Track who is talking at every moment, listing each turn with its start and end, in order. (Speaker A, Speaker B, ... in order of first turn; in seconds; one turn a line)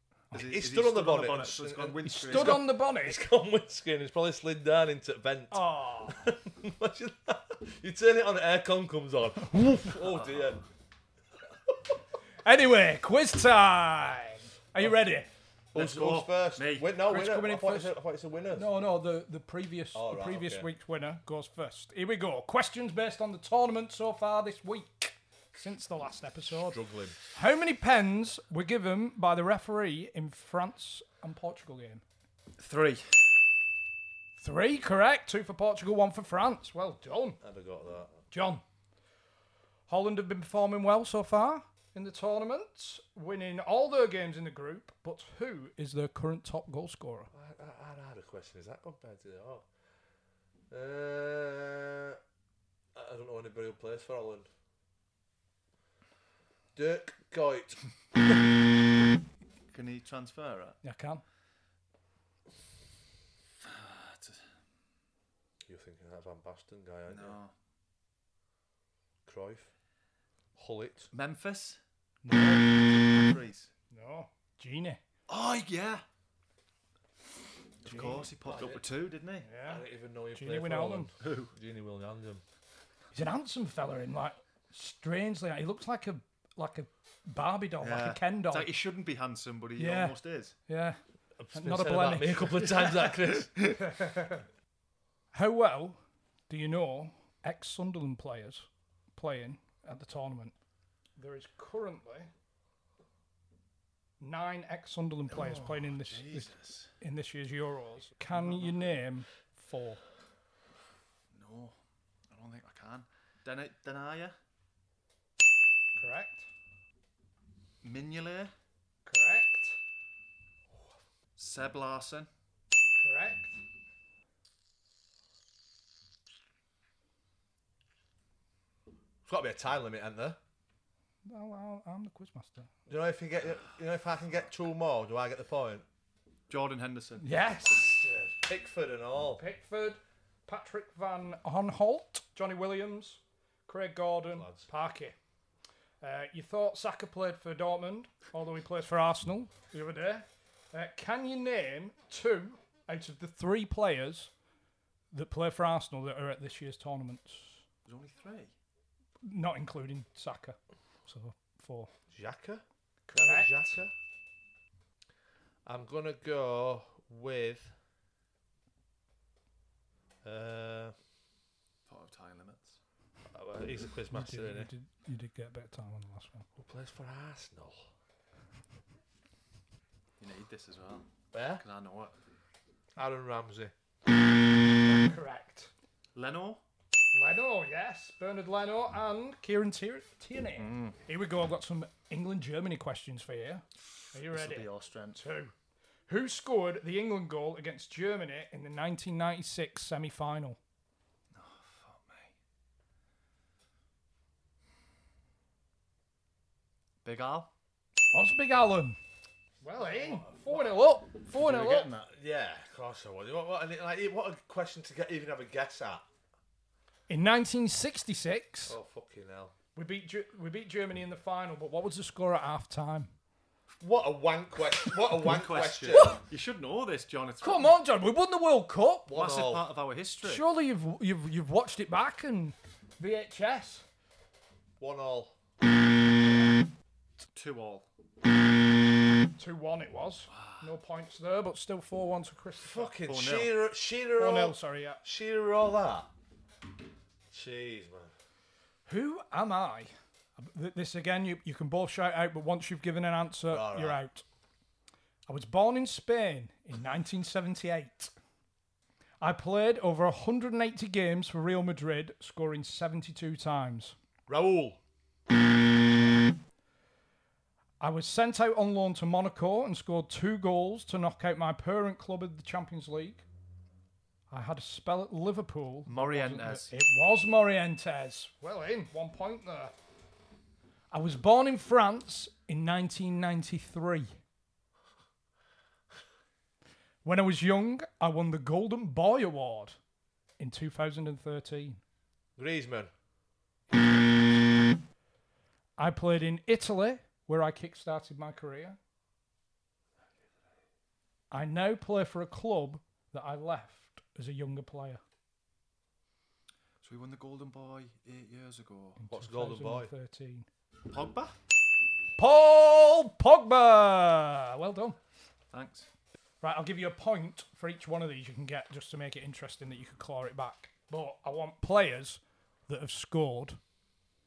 Speaker A: 0.3-2.7
Speaker B: 0.3-10.6
Speaker C: 2.0-3.2
Speaker C: 5.5-6.3
Speaker C: 9.5-9.9
Speaker A: 10.1-10.6
Speaker C: 12.4-15.3
Speaker B: 15.7-18.7
Speaker A: 15.7-16.9
Speaker C: 17.1-17.9
Speaker C: 18.5-32.0
Speaker B: 19.9-20.7
Speaker B: 26.5-27.2
Speaker A: 32.6-33.3
Speaker C: 34.4-37.4
Speaker B: 37.4-38.2
Speaker C: 38.3-38.6
Speaker C: 39.9-47.3
Speaker B: 47.3-49.6
Speaker B: 50.7-52.2
Speaker B: 53.0-54.5
Speaker B: 56.8-57.8
Speaker A: 59.7-60.8
Speaker C: 60.8-61.2
Speaker A: 63.6-64.5
Speaker B: 65.7-67.4
Speaker A: 67.1-67.5
Speaker B: 69.3-69.7
Speaker B: 70.6-71.1
Speaker A: 71.1-71.8
Speaker C: 72.2-72.8
Speaker A: 72.3-73.7
Speaker C: 73.9-75.0
Speaker A: 75.3-76.0
Speaker A: 77.8-79.5
Speaker C: 77.8-78.3
Speaker B: 78.5-78.8
Speaker C: 79.5-79.8
Speaker B: 79.7-82.4
Speaker C: 80.3-81.1
Speaker A: 81.2-81.5
Speaker C: 83.1-88.7
Speaker A: 87.8-90.5
Speaker C: 89.8-90.2
Speaker C: 90.7-91.0
Speaker B: 91.4-93.5
Speaker C: 91.5-92.8
Speaker C: 93.8-94.4
Speaker C: 95.3-100.5
Speaker C: 101.2-102.3
Speaker C: 104.2-110.0
Speaker A: 105.3-106.9
Speaker A: 108.3-109.0
Speaker A: 111.3-111.8
Speaker A: 112.3-114.4
Speaker C: 116.0-116.5
Speaker A: 117.8-118.5
Speaker C: 119.1-119.8
Speaker A: 121.4-122.3
Speaker C: 123.0-123.6
Speaker B: 129.3-130.4
Speaker C: 131.3-132.7
Speaker B: 132.9-135.8
Speaker A: 136.5-137.2
Speaker C: 137.2-138.1
Speaker B: 137.7-139.4
Speaker C: 139.4-145.2
Speaker B: 144.3-144.7
Speaker C: 146.0-154.3
Speaker C: 155.1-157.6
Speaker A: 157.9-158.5
Speaker C: 159.2-161.9
Speaker B: 162.1-163.9
Speaker C: 163.1-163.8
Speaker B: 165.7-167.7
Speaker B: 170.2-170.9
Speaker A: 171.9-172.8
Speaker B: 173.3-174.7
Speaker C: 174.1-176.5
Speaker B: 176.6-177.9
Speaker A: 180.2-181.1
Speaker B: 181.3-181.6
Speaker A: 181.6-182.2
Speaker B: 183.0-183.7
Speaker C: 184.8-185.7
Speaker A: 186.2-186.6
Speaker C: 187.1-195.5
Speaker A: 190.6-191.0
Speaker A: 194.1-195.2
Speaker C: 196.1-200.6
Speaker A: 201.3-202.3
Speaker A: 207.0-207.5
Speaker C: 208.1-209.0
Speaker C: 209.6-211.9
Speaker B: 209.7-210.7
Speaker A: 211.3-212.1
Speaker B: 212.1-216.1
Speaker C: 217.1-218.8
Speaker B: 218.7-219.5
Speaker C: 219.8-223.1
Speaker B: 223.8-226.2
Speaker A: 225.2-227.7
Speaker C: 227.4-229.1
Speaker B: 229.1-229.6
Speaker A: 229.1-230.5
Speaker C: 230.2-233.8
Speaker B: 234.8-235.3
Speaker A: 237.3-237.9
Speaker C: 239.4-242.9
Speaker A: 240.3-240.7
Speaker B: 242.6-246.1
Speaker A: 243.1-243.5
Speaker C: 244.2-245.0
Speaker B: 247.3-248.1
Speaker C: 248.9-254.2
Speaker B: 253.5-254.0
Speaker C: 255.3-258.1
Speaker C: 259.2-264.0
Speaker B: 264.3-264.8
Speaker C: 267.8-273.2
Speaker C: 274.3-279.7
Speaker A: 275.9-276.7
Speaker C: 280.9-284.2
Speaker C: 287.0-289.8
Speaker C: 290.4-291.8
Speaker B: 292.4-292.9
Speaker C: 295.8-298.8
Speaker C: 301.3-305.0
Speaker A: 306.8-309.0
Speaker C: 309.0-310.5
Speaker B: 309.1-309.9
Speaker A: 310.9-311.3
Speaker C: 312.2-315.0
Speaker A: 315.5-315.9
Speaker C: 316.4-323.6